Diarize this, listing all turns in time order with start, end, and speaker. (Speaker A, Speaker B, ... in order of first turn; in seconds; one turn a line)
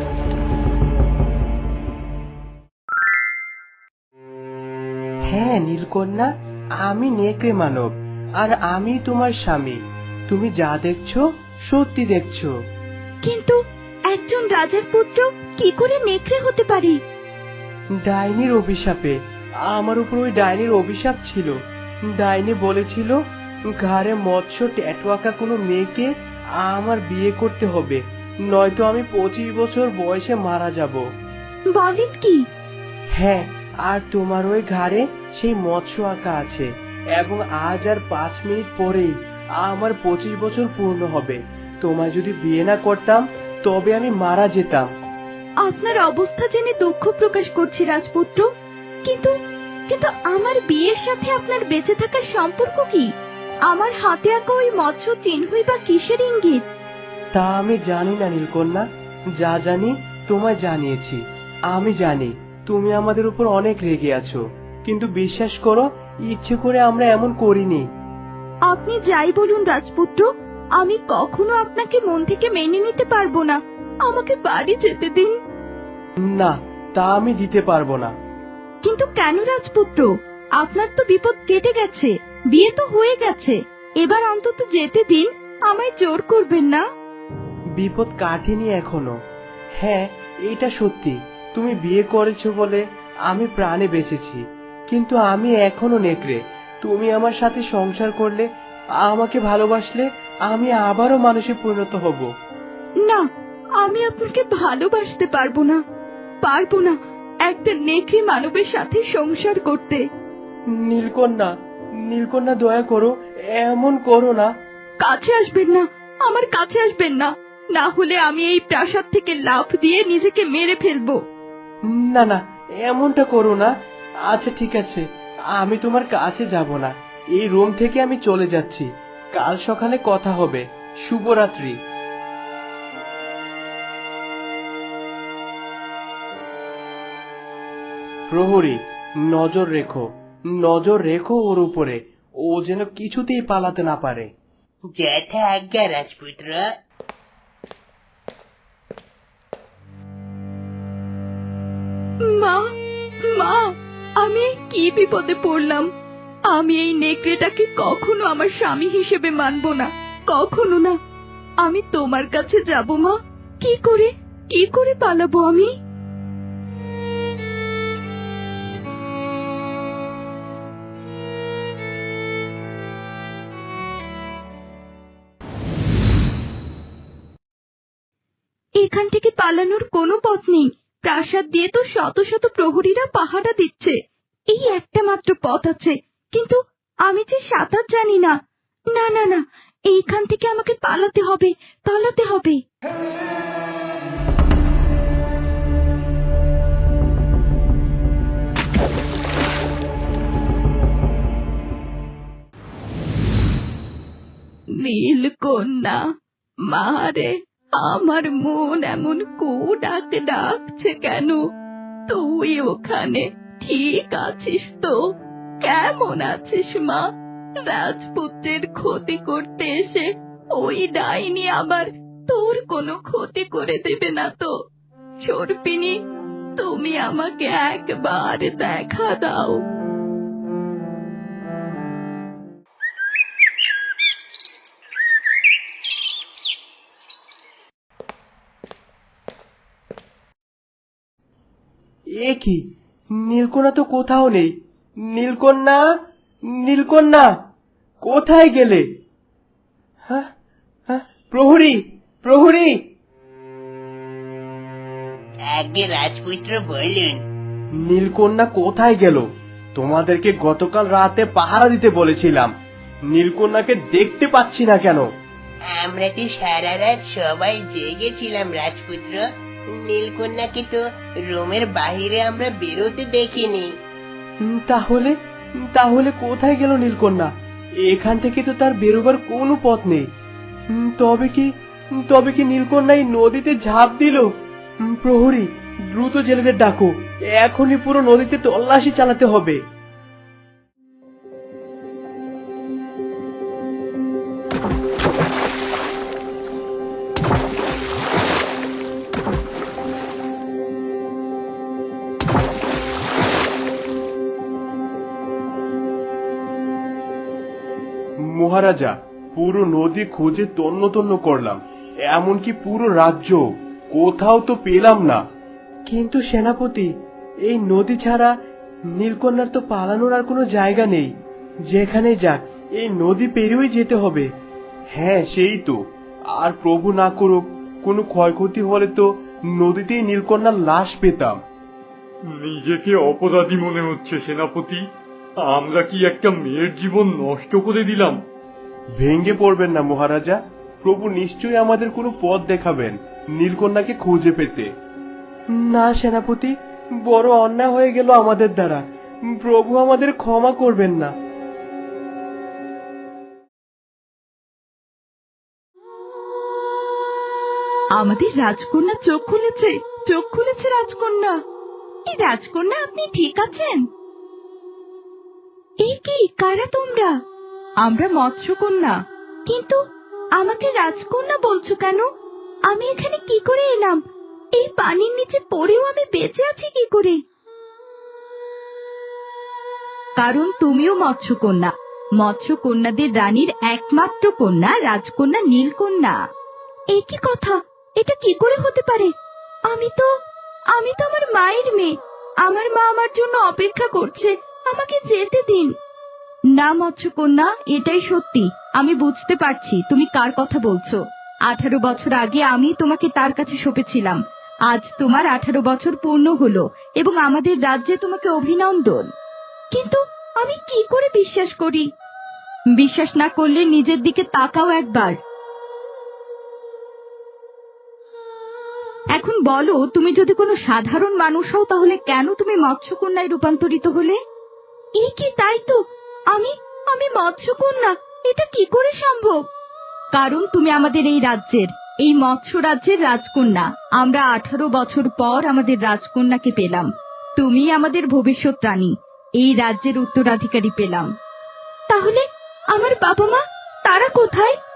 Speaker A: 5.3-6.3
Speaker A: 6.8-12.5
Speaker B: 13.2-13.6
Speaker B: 14.1-17.0
Speaker A: 18.0-21.5
Speaker A: 22.1-23.2
Speaker A: 23.8-31.0
Speaker B: 31.7-32.5
Speaker A: 33.1-44.9
Speaker B: 45.6-48.5
Speaker B: 49.0-49.3
Speaker B: 49.9-53.1
Speaker B: 53.7-56.6
Speaker A: 57.3-58.8
Speaker A: 59.4-67.8
Speaker B: 68.7-70.3
Speaker B: 70.8-75.4
Speaker A: 76.3-78.1
Speaker B: 78.8-86.8
Speaker A: 87.8-89.2
Speaker A: 89.8-98.5
Speaker A: 99.0-102.3
Speaker B: 103.8-105.8
Speaker B: 106.4-110.0
Speaker A: 110.8-111.5
Speaker A: 112.1-114.5
Speaker B: 115.0-121.2
Speaker A: 121.9-123.7
Speaker A: 124.3-125.0
Speaker A: 125.6-131.8
Speaker A: 138.3-144.3
Speaker C: 145.0-146.7
Speaker B: 152.3-152.7
Speaker B: 153.2-155.9
Speaker B: 156.5-161.0
Speaker B: 161.6-165.7
Speaker B: 178.8-184.0
Speaker B: 184.5-188.3
Speaker B: 188.9-192.6
Speaker B: 204.7-206.0
Speaker B: 206.7-211.4
Speaker B: 212.1-215.0
Speaker B: 215.6-217.0
Speaker B: 217.6-224.5
Speaker B: 225.2-226.0
Speaker B: 226.6-229.6
Speaker A: 242.2-242.6
Speaker A: 243.2-244.5
Speaker A: 245.1-245.8
Speaker A: 246.5-247.3
Speaker A: 248.0-248.8
Speaker A: 250.9-252.8
Speaker C: 255.5-257.2
Speaker A: 257.8-262.5
Speaker A: 263.1-265.1
Speaker C: 265.7-273.7
Speaker A: 274.4-277.3
Speaker A: 277.8-280.1
Speaker A: 280.7-284.3
Speaker A: 284.9-289.6
Speaker A: 308.3-315.2
Speaker A: 315.9-316.9
Speaker A: 317.5-318.4
Speaker A: 318.9-321.1
Speaker A: 321.7-324.3
Speaker A: 324.9-325.8
Speaker A: 326.3-331.4
Speaker D: 332.3-334.8
Speaker D: 335.4-338.2
Speaker A: 339.0-344.7
Speaker A: 345.6-351.1
Speaker B: 358.0-361.4
Speaker B: 362.1-363.9
Speaker B: 365.8-367.1
Speaker B: 367.8-369.8
Speaker B: 370.4-372.1
Speaker B: 372.7-374.0
Speaker B: 374.6-377.2
Speaker B: 380.2-386.2
Speaker B: 386.9-389.1
Speaker B: 389.7-390.1
Speaker B: 390.7-395.7
Speaker B: 396.6-404.2
Speaker B: 404.7-409.1
Speaker B: 409.7-411.9
Speaker B: 412.8-415.2
Speaker B: 419.2-424.2
Speaker B: 425.0-425.8
Speaker B: 426.3-429.4
Speaker B: 430.1-441.1
Speaker B: 441.9-444.6